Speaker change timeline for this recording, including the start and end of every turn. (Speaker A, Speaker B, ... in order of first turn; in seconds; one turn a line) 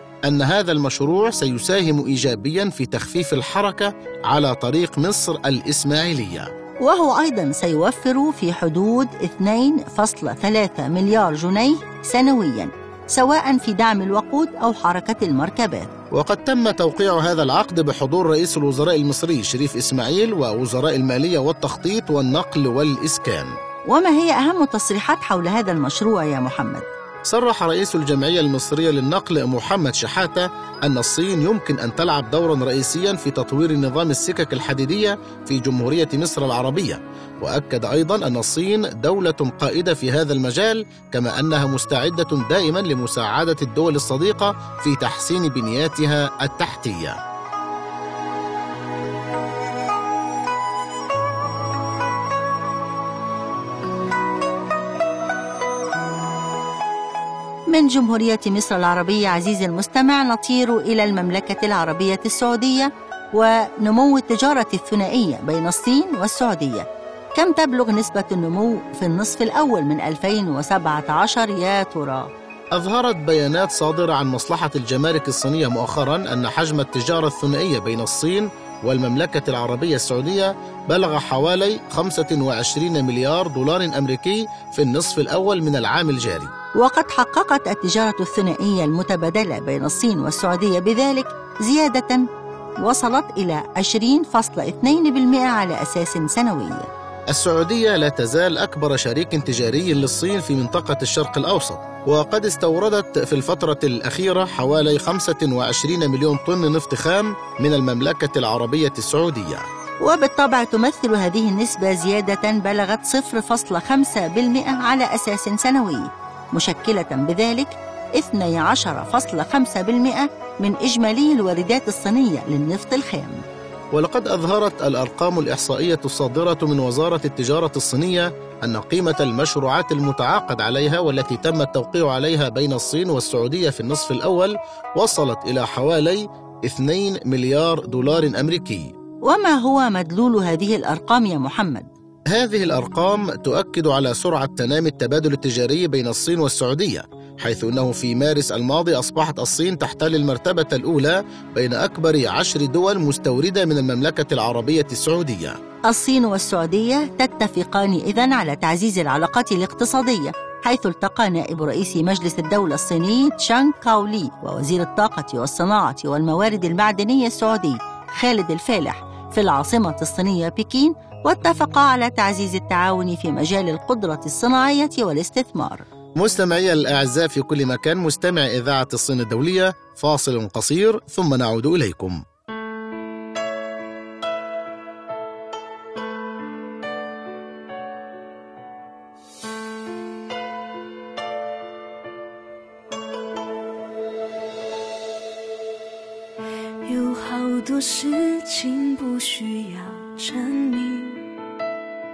Speaker A: 0.2-6.5
Speaker B: 6.8-15.9
Speaker A: 16.1-23.6
Speaker B: 23.9-26.8
Speaker A: 27.2-47.2
Speaker B: 57.7-72.3
Speaker A: 72.7-86.5
Speaker B: 86.8-92.3
Speaker B: 92.8-96.9
Speaker A: 97.3-109.7
Speaker B: 110.0-123.4
Speaker A: 123.9-138.9
Speaker B: 139.3-141.9
Speaker A: 142.3-155.6
Speaker B: 155.9-175.8
Speaker A: 176.2-182.2
Speaker C: 196.8-201.2